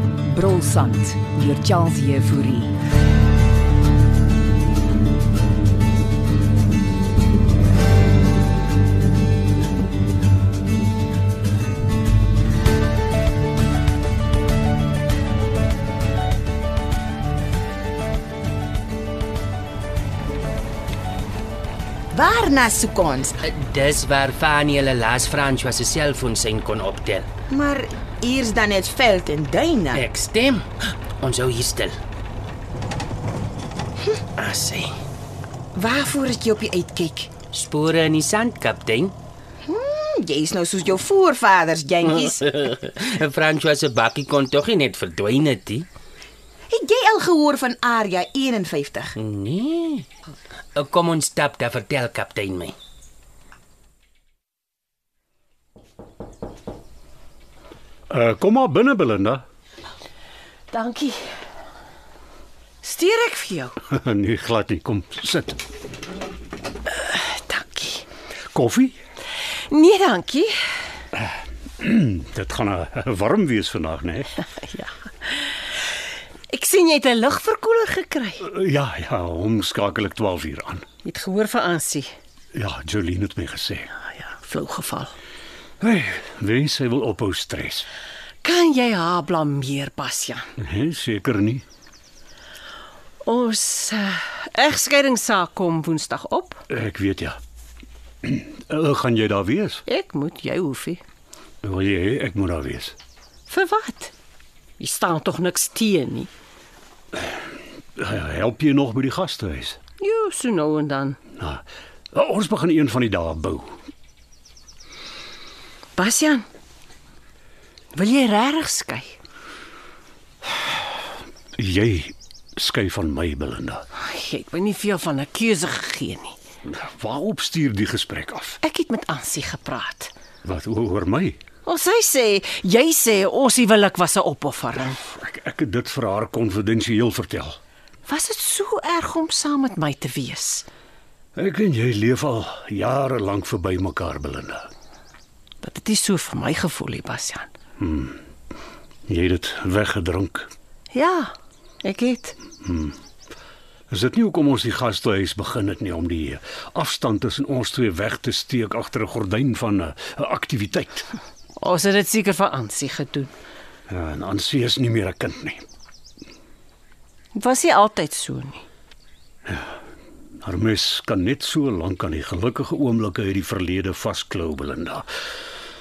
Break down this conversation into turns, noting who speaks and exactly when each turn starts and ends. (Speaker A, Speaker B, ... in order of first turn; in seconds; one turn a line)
Speaker A: 0.3-2.7
Speaker B: 22.1-23.4
Speaker C: 23.4-27.3
Speaker B: 27.5-30.1
Speaker C: 29.9-30.6
Speaker C: 31.2-32.0
Speaker C: 34.4-34.9
Speaker B: 35.8-37.3
Speaker C: 37.5-39.1
Speaker B: 39.6-42.4
Speaker C: 42.2-45.9
Speaker B: 46.7-49.1
Speaker C: 49.2-50.1
Speaker C: 50.8-52.7
Speaker D: 58.1-59.4
Speaker E: 60.7-61.2
Speaker E: 62.8-63.8
Speaker D: 63.9-65.6
Speaker E: 66.9-68.0
Speaker D: 68.5-69.0
Speaker E: 69.7-70.6
Speaker D: 71.2-74.3
Speaker E: 74.5-75.6
Speaker E: 76.5-78.4
Speaker D: 78.4-80.8
Speaker E: 81.0-82.1
Speaker D: 82.5-83.9
Speaker E: 84.0-85.1
Speaker D: 85.8-87.9
Speaker E: 88.4-90.5
Speaker D: 90.6-91.6
Speaker E: 93.2-96.6
Speaker D: 96.7-97.4
Speaker D: 98.2-99.8
Speaker E: 99.8-101.0
Speaker D: 101.6-103.0
Speaker E: 103.5-104.1
Speaker E: 104.8-106.3
Speaker D: 108.0-109.8
Speaker E: 110.0-111.2
Speaker D: 111.4-113.7
Speaker E: 116.0-116.5
Speaker E: 117.9-119.2
Speaker D: 121.6-123.8
Speaker E: 124.0-126.3
Speaker D: 126.6-128.6
Speaker E: 128.6-130.1
Speaker D: 130.4-131.4
Speaker E: 131.6-135.0
Speaker D: 135.1-137.6
Speaker E: 138.1-140.7
Speaker D: 141.3-144.7
Speaker E: 145.6-147.5
Speaker D: 147.8-148.2
Speaker D: 149.1-150.5
Speaker E: 150.9-151.3
Speaker E: 151.8-152.3
Speaker D: 152.6-153.0
Speaker D: 153.9-161.1
Speaker E: 161.6-163.3
Speaker D: 163.9-165.6
Speaker E: 167.3-168.6
Speaker D: 169.4-169.7
Speaker D: 170.4-175.1